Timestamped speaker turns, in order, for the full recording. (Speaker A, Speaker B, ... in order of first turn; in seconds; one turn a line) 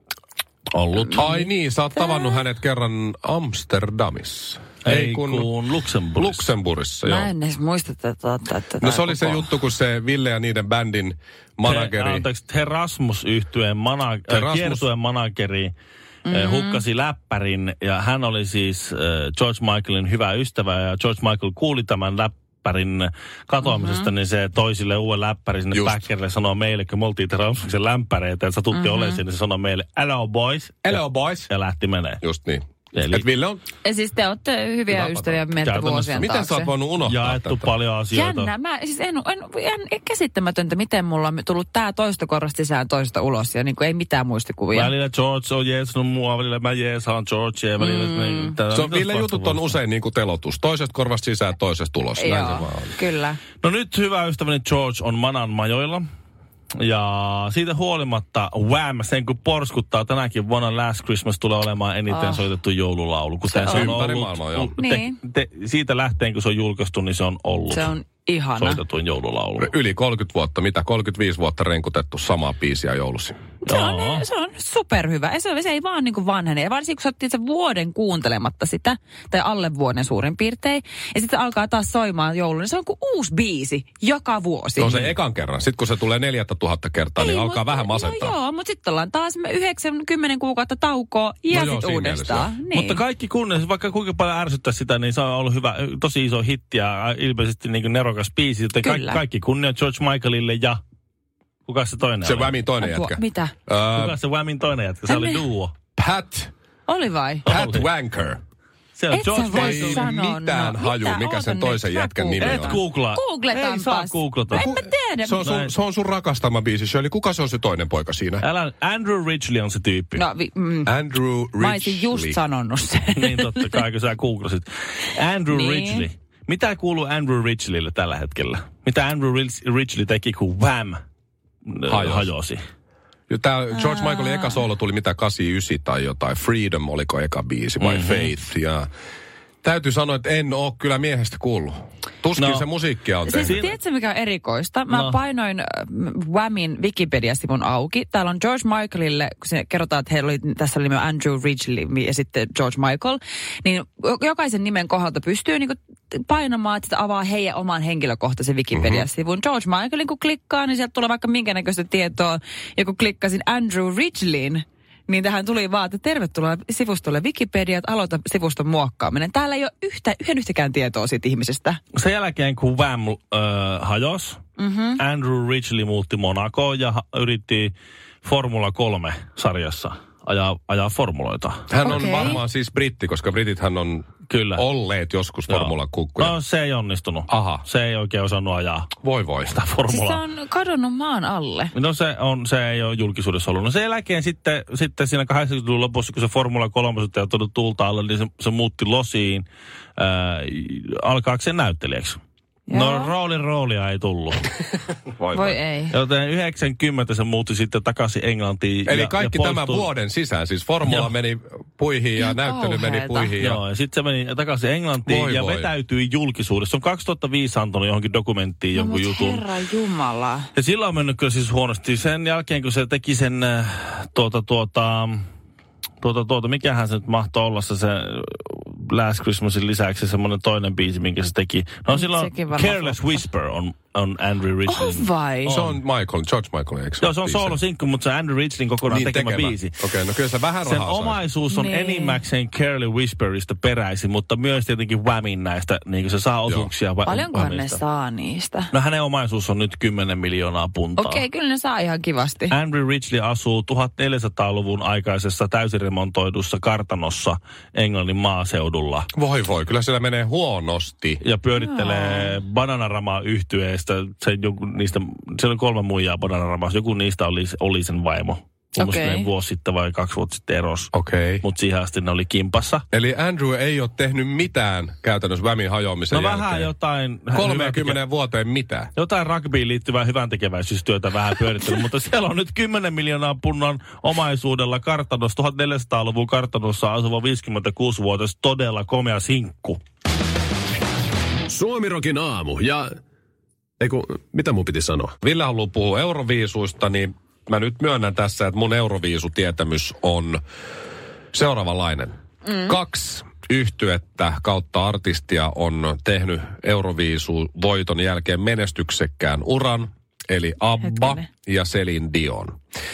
Speaker A: 0.8-5.5
Speaker B: 1.0-2.4
Speaker C: 4.8-6.5
Speaker A: 6.2-7.3
Speaker B: 7.0-9.5
Speaker A: 8.8-12.2
Speaker C: 11.7-15.7
Speaker A: 14.3-14.8
Speaker B: 16.2-16.8
Speaker C: 16.3-32.2
Speaker B: 23.6-24.1
Speaker A: 25.7-26.0
Speaker B: 28.7-29.2
Speaker A: 30.8-31.5
Speaker A: 32.2-33.6
Speaker C: 32.9-33.2
Speaker B: 33.8-36.7
Speaker A: 34.9-35.4
Speaker C: 35.6-36.3
Speaker A: 36.2-37.7
Speaker C: 37.0-38.5
Speaker B: 38.1-44.9
Speaker C: 44.7-49.8
Speaker B: 47.8-48.6
Speaker A: 48.7-52.9
Speaker B: 52.2-53.4
Speaker C: 53.6-56.0
Speaker C: 56.8-67.9
Speaker B: 62.1-62.4
Speaker B: 63.5-64.0
Speaker A: 63.7-64.7
Speaker B: 64.8-65.2
Speaker B: 67.7-68.8
Speaker C: 68.6-69.7
Speaker A: 69.6-73.4
Speaker B: 73.6-85.0
Speaker C: 73.7-74.2
Speaker A: 84.8-88.3
Speaker B: 87.2-93.0
Speaker A: 91.5-92.5
Speaker C: 92.7-100.8
Speaker B: 98.8-99.2
Speaker C: 101.7-102.5
Speaker A: 102.2-104.2
Speaker B: 102.8-103.5
Speaker C: 103.9-105.7
Speaker B: 105.1-105.4
Speaker A: 106.0-106.5
Speaker B: 106.9-107.5
Speaker C: 107.5-107.8
Speaker A: 107.5-108.4
Speaker C: 109.0-110.1
Speaker B: 109.1-115.5
Speaker A: 109.5-112.8
Speaker C: 112.4-114.7
Speaker A: 114.5-118.4
Speaker C: 115.4-115.7
Speaker C: 118.4-120.2
Speaker B: 120.2-120.9
Speaker A: 120.8-122.4
Speaker B: 121.6-123.8
Speaker C: 123.1-131.0
Speaker B: 125.5-126.1
Speaker C: 131.7-132.6
Speaker A: 131.9-132.3
Speaker A: 133.3-138.9
Speaker B: 133.7-134.6
Speaker C: 137.8-138.3
Speaker A: 139.6-143.6
Speaker C: 142.4-142.7
Speaker B: 143.2-171.8
Speaker C: 143.4-143.7
Speaker C: 144.9-145.2
Speaker A: 158.7-159.0
Speaker C: 171.9-174.4
Speaker B: 174.6-175.0
Speaker C: 175.0-181.7
Speaker A: 181.7-186.3
Speaker B: 181.8-182.4
Speaker C: 184.3-184.6
Speaker C: 185.5-188.9
Speaker A: 187.3-187.6
Speaker A: 189.0-189.6
Speaker C: 189.5-190.2
Speaker B: 189.9-191.7
Speaker C: 191.7-199.4
Speaker C: 200.0-202.2
Speaker B: 202.7-203.1
Speaker C: 202.7-204.5
Speaker A: 205.2-205.6
Speaker B: 205.3-205.9
Speaker C: 205.9-209.9
Speaker A: 208.9-213.6
Speaker C: 210.9-211.1
Speaker B: 212.2-213.3
Speaker C: 213.4-219.4
Speaker A: 215.0-215.7
Speaker B: 218.7-220.5
Speaker C: 220.5-225.3
Speaker C: 226.0-235.7
Speaker B: 231.9-233.2
Speaker B: 234.7-235.6
Speaker A: 235.4-237.6
Speaker C: 237.0-239.7
Speaker A: 238.8-241.2
Speaker C: 240.6-247.8
Speaker B: 241.5-242.2
Speaker B: 247.0-248.7
Speaker C: 248.7-251.2
Speaker B: 251.0-252.5
Speaker C: 252.5-259.1
Speaker A: 259.1-261.2
Speaker C: 261.2-272.8
Speaker B: 261.6-262.4
Speaker B: 268.8-269.3
Speaker A: 270.9-271.4
Speaker A: 272.9-276.7
Speaker C: 276.1-278.0
Speaker A: 277.3-278.9
Speaker C: 278.9-289.8
Speaker D: 291.5-293.0
Speaker D: 293.8-295.1
Speaker A: 295.2-300.4
Speaker A: 301.3-312.6
Speaker B: 302.4-302.7
Speaker B: 310.8-311.3